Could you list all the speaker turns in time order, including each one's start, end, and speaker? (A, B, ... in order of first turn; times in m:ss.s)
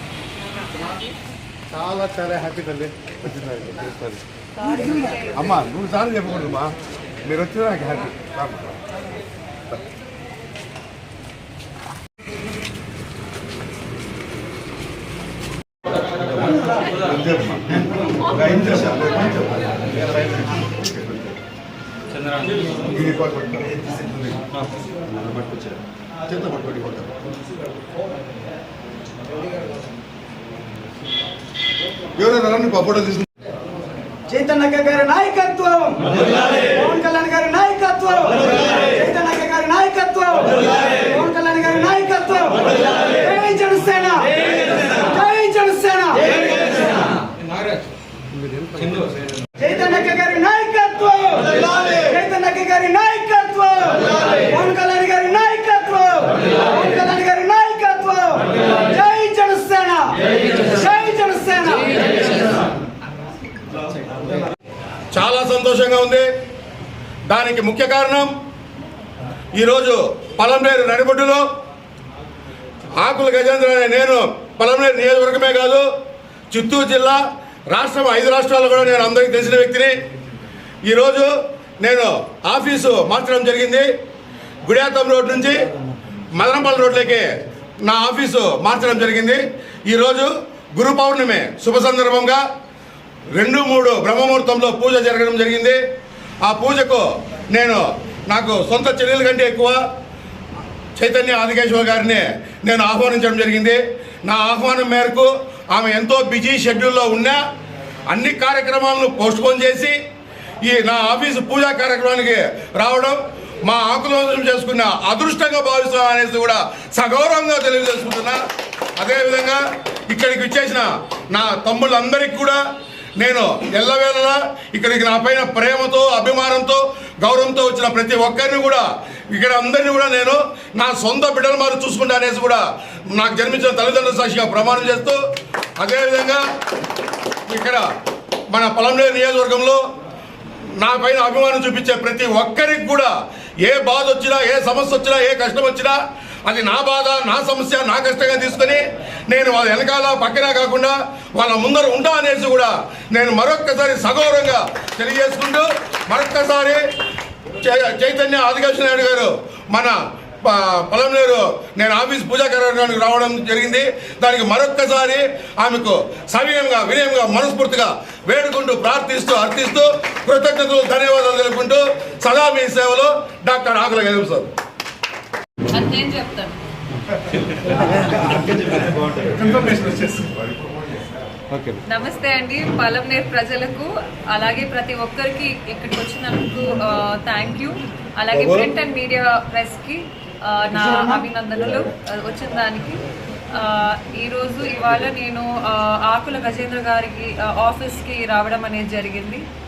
0:01.7-0:04.2 A
0:04.7-0:05.2 B
0:05.4-0:06.7 A
0:07.3-0:08.8 A
0:17.0-0:19.6 A
0:20.7-0:21.3 A
0:22.9-0:24.4 A
0:25.1-0:25.7 A
0:26.3-0:27.1 A
0:32.2-0:33.2 A
0:34.3-0:47.0 C
0:49.6-1:02.5 C
1:05.1-1:06.3 A
1:07.3-1:08.3 A
1:09.6-1:11.4 A
1:13.0-1:15.9 A
1:16.5-1:19.9 A
1:20.9-1:23.9 A
1:24.6-1:25.7 A
1:26.3-1:27.3 A
1:27.8-1:32.4 A
1:33.3-1:35.8 A
1:36.4-1:39.8 A
1:41.0-1:47.4 A
1:48.1-1:50.0 A
1:50.6-1:58.4 A
1:59.0-2:02.6 A
2:03.2-2:15.2 A
2:15.8-2:16.4 A
2:17.5-2:17.8 A
2:18.5-2:19.8 A
2:20.8-2:36.8 A
2:37.5-2:54.5 A
2:55.7-2:56.6 B
3:01.8-3:13.0 B
3:10.7-3:11.2 C
3:13.5-3:19.4 B